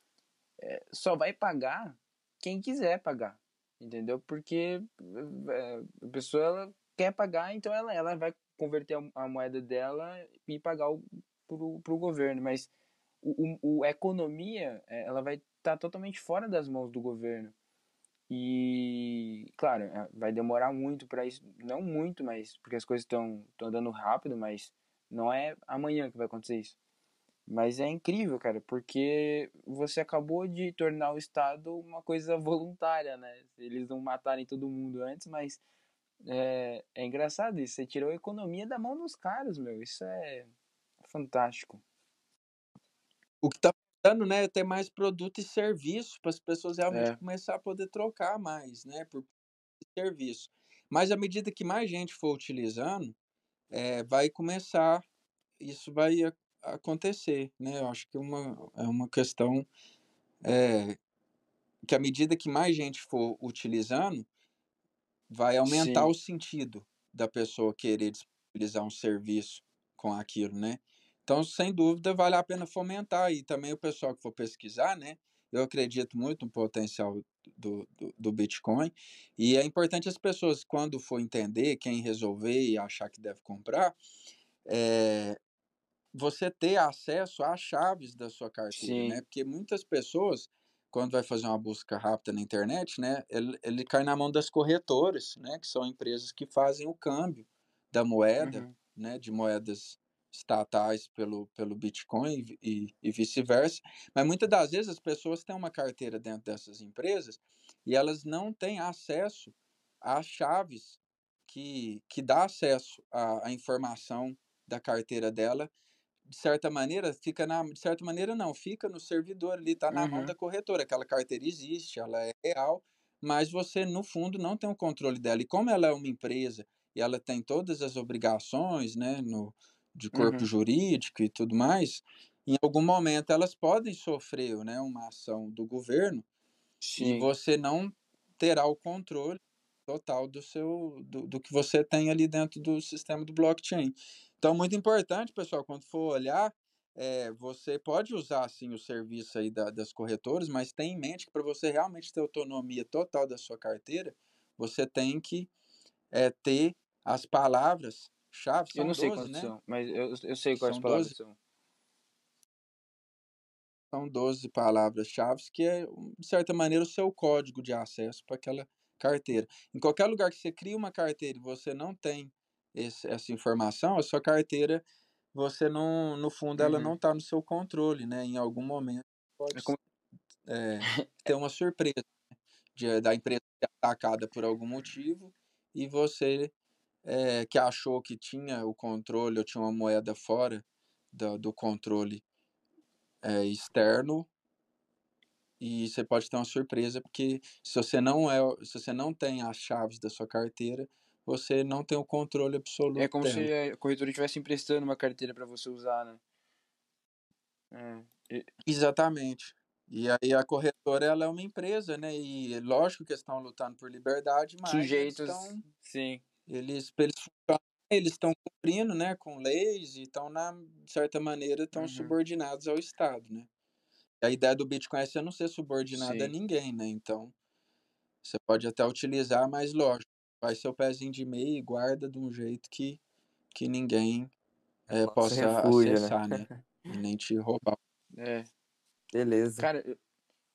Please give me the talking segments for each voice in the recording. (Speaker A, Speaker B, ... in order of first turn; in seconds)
Speaker A: 0.6-12.7, 13.2-17.5, 18.3-26.8, 27.4-35.6, 36.2-40.5, 41.0-41.8, 46.9-47.2, 65.7-66.1, 88.7-89.2, 98.4-98.7, 119.9-120.3, 130.1-130.5, 136.8-137.3, 158.7-161.3, 176.6-176.9, 180.9-181.3, 203.0-206.2, 207.7-208.5, 214.6-216.2, 221.7-222.2, 225.9-226.3, 238.1-238.5, 239.6-240.0
Speaker B: 43.4-49.3, 49.8-53.1, 53.7-55.0, 55.6-59.7, 60.4-61.0, 61.8-64.3, 65.3-84.0, 84.7-85.4, 86.1-115.7, 116.3-136.2, 137.0-155.5, 156.1-159.5, 160.5-161.2, 163.9-179.8, 180.5-182.0, 182.7-186.5, 187.0-192.2, 193.2-194.3, 195.6-203.5, 208.7-215.6, 216.5-223.5, 224.2-227.3, 228.2-233.0, 233.5-234.3, 234.9-237.8
Speaker C: 234.9-236.6, 239.1-239.7